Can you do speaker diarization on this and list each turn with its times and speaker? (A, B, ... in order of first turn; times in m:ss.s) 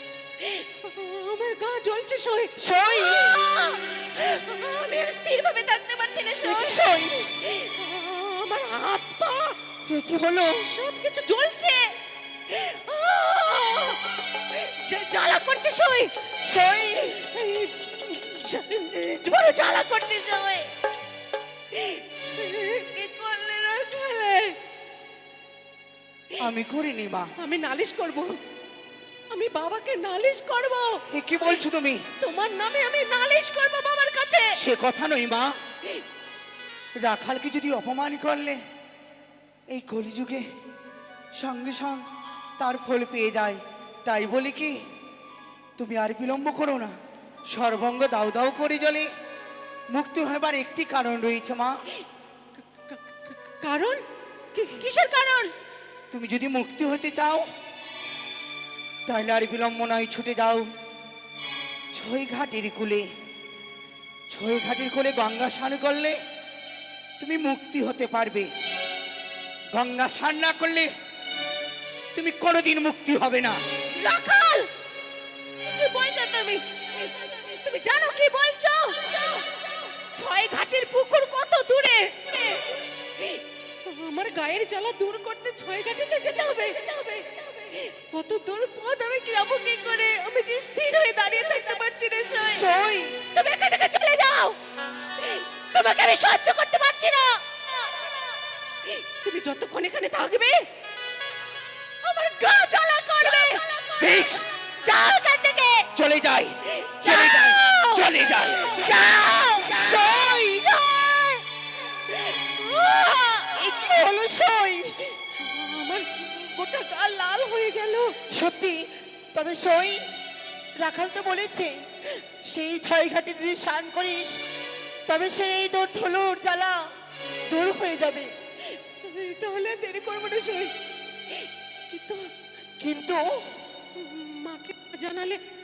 0:00.4-0:09.6 A
0:02.6-0:03.4 B
0:06.4-0:07.3 B
0:09.9-0:10.6 B
0:10.4-0:11.9 A
0:12.5-0:16.1 A
0:16.4-0:17.2 B
0:17.0-0:20.7 A
0:21.7-0:24.6 A
0:26.4-0:27.3 C
0:27.4-0:28.4 A
0:29.3-0:31.0 A
0:31.1-0:32.0 C
0:32.2-0:34.6 A
0:34.6-0:35.5 C
0:37.0-0:38.6 C
0:39.7-0:40.4 C
0:41.4-0:42.0 C
0:42.6-0:44.8 C
0:45.8-0:46.9 C
0:47.5-0:49.1 C
0:49.9-0:51.7 C
0:52.6-0:54.0 A
0:54.5-0:55.5 A
0:56.1-0:57.4 C
0:59.1-1:00.6 C
1:01.9-1:03.0 C
1:04.3-1:06.2 C
1:07.2-1:08.5 C
1:09.7-1:10.9 C
1:12.1-1:13.6 C
1:13.9-1:14.7 A
1:15.6-1:32.7 A
1:32.4-1:33.2 B
1:33.3-1:34.6 A
1:35.2-1:37.4 A
1:38.9-1:40.6 A
1:42.0-1:45.9 A
1:44.0-1:44.4 C
1:45.9-1:48.9 C
1:46.8-1:50.4 A
1:48.8-1:51.4 B
1:52.1-1:53.9 A
1:53.4-1:55.1 B
1:55.3-1:58.2 A
1:58.3-2:00.0 B
2:00.8-2:04.4 B
2:05.1-2:06.9 B
2:07.5-2:08.3 B
2:08.7-2:10.7 A
2:11.9-2:12.3 A
2:12.8-2:13.6 B
2:13.9-2:15.4 A